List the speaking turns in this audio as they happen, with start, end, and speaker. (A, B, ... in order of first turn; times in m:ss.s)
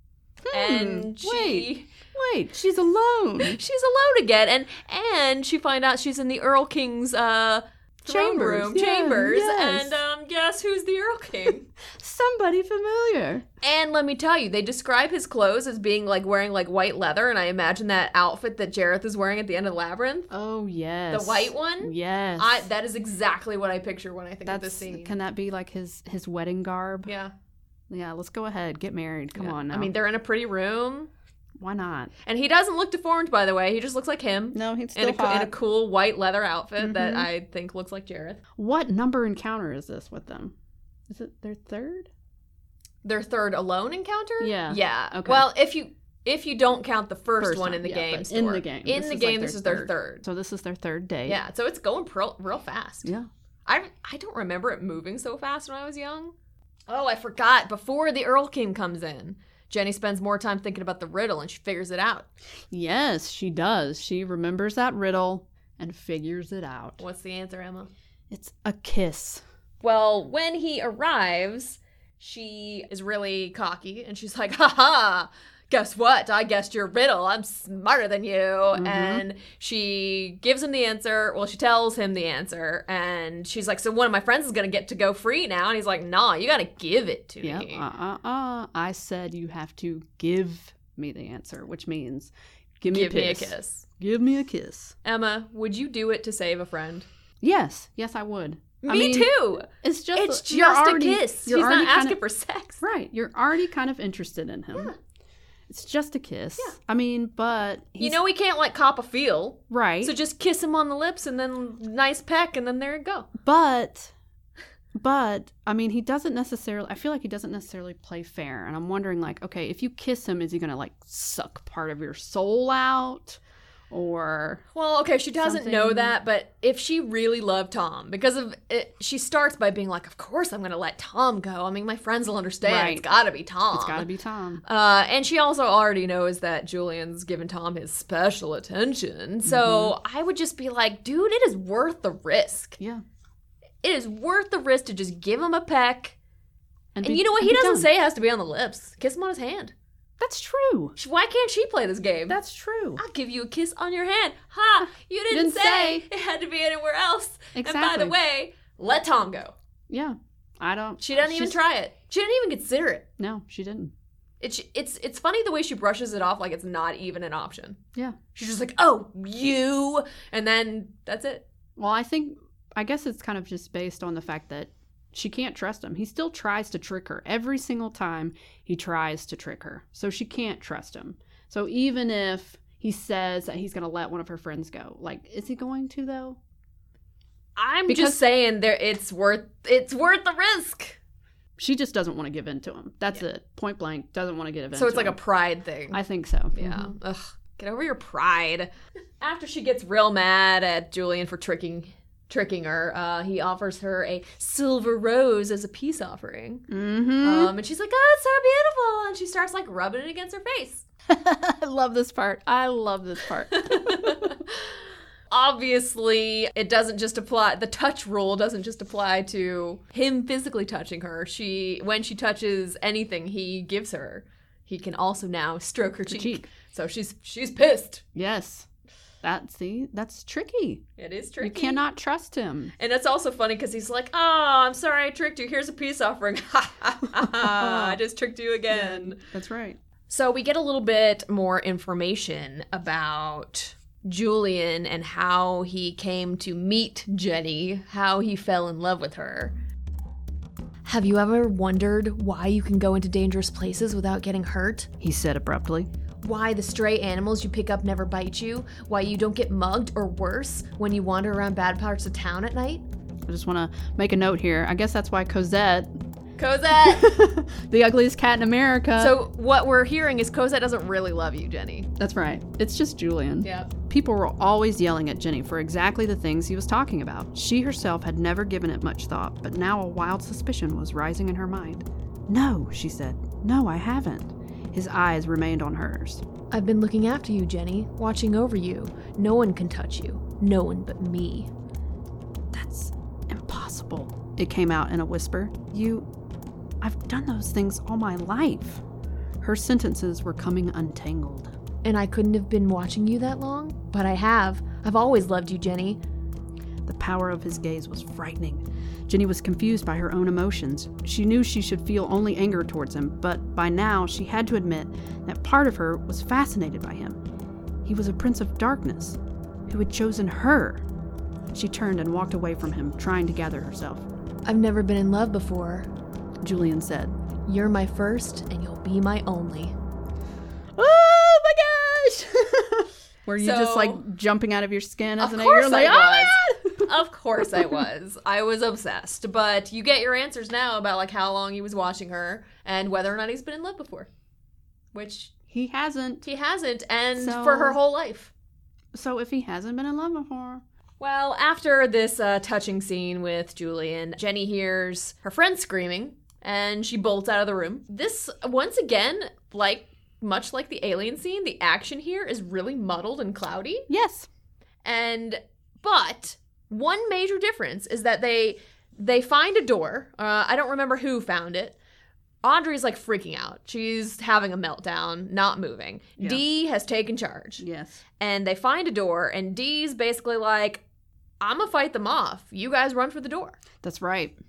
0:00.4-0:03.6 A
0:00.5-0:01.9 B
0:03.4-0:11.7 B
0:08.0-0:10.0 A
0:11.9-0:13.4 A
0:13.6-0:20.3 B
0:20.3-0:22.7 A
0:21.1-0:25.1 B
0:24.4-0:27.1 A
0:27.1-0:27.3 B
0:27.9-0:29.9 A
0:29.3-0:31.1 B
0:31.6-0:32.1 A
0:32.2-0:38.4 B
0:34.5-0:35.5 A
0:36.8-0:37.3 A
0:38.6-0:40.5 A
0:41.1-0:42.1 A
0:43.0-0:50.2 B
0:44.4-0:45.4 A
0:47.4-0:51.4 A
0:51.2-0:53.1 B
0:53.6-0:56.3 B
0:56.9-1:02.3 B
1:02.7-1:07.0 A
1:07.0-1:07.9 B
1:08.3-1:09.4 A
1:09.8-1:27.8 B
1:18.7-1:19.2 A
1:27.4-1:34.9 A
1:32.9-1:33.8 B
1:35.0-1:37.0 B
1:37.4-1:42.2 A
1:38.8-1:42.8 B
1:42.8-1:44.9 A
1:45.7-1:48.2 A
1:48.0-1:53.3 B
1:49.7-1:50.2 A
1:53.4-1:54.1 A
1:54.9-2:03.4 A
2:03.9-2:04.6 A
2:04.7-2:14.1 B
2:05.4-2:06.1 A
2:12.6-2:13.0 A
2:13.7-2:14.6 A
2:14.6-2:22.8 B
2:19.4-2:19.9 A
2:23.8-2:26.2 B
2:26.9-2:27.9 A
2:27.0-2:29.7 B
2:30.2-2:31.0 A
2:31.0-2:32.4 B
2:32.3-2:33.0 A
2:33.0-2:39.5 B
2:35.3-2:36.0 A
2:37.5-2:38.1 A
2:39.9-2:41.6 A
2:41.0-2:43.0 B
2:43.2-2:43.9 A
2:44.4-2:47.8 B
2:48.3-2:51.4 B
2:51.8-3:06.4 A
3:07.6-3:11.0 B
3:07.9-3:08.2 A
3:11.6-3:15.2 A
3:14.7-3:16.0 B
3:15.9-3:16.9 A
3:16.5-3:26.6 B
3:26.7-3:27.5 A
3:27.2-3:30.8 B
3:31.1-3:34.4 A
3:33.5-3:34.7 B
3:35.3-3:48.0 B
3:46.1-3:46.5 A
3:48.1-3:48.7 A
3:49.2-3:50.8 A
3:51.0-3:51.8 B
3:51.4-3:52.7 A
3:52.8-3:59.2 B
3:57.3-3:58.0 A
3:58.7-3:59.8 A
4:00.1-4:09.6 B
4:10.8-4:14.9 B
4:15.0-4:15.9 A
4:16.2-4:22.8 B
4:23.3-4:25.9 A
4:26.4-4:27.0 B
4:26.8-4:29.2 A
4:29.0-4:31.9 B
4:32.0-4:46.2 A
4:33.4-4:33.7 B
4:46.5-4:51.5 B
4:52.5-4:56.1 A
4:56.8-4:58.8 A
4:59.4-5:01.5 A
5:01.8-5:06.0 B
5:06.8-5:17.2 A
5:17.8-5:20.8 A
5:21.5-5:24.0 A
5:24.4-5:25.9 B
5:26.4-5:27.1 A
5:27.4-5:29.7 B
5:30.8-5:36.9 A
5:33.4-5:34.0 B
5:35.2-5:44.1 B
5:44.9-5:45.3 B
5:45.5-5:46.2 A
5:46.2-5:48.3 B
5:47.2-5:47.8 A
5:48.9-5:50.6 A
5:51.0-6:03.9 B
6:03.9-6:04.3 A
6:04.8-6:11.8 B
6:12.4-6:17.6 B
6:17.6-6:18.0 A
6:18.2-6:20.8 B
6:21.4-6:23.6 B
6:23.8-6:24.4 A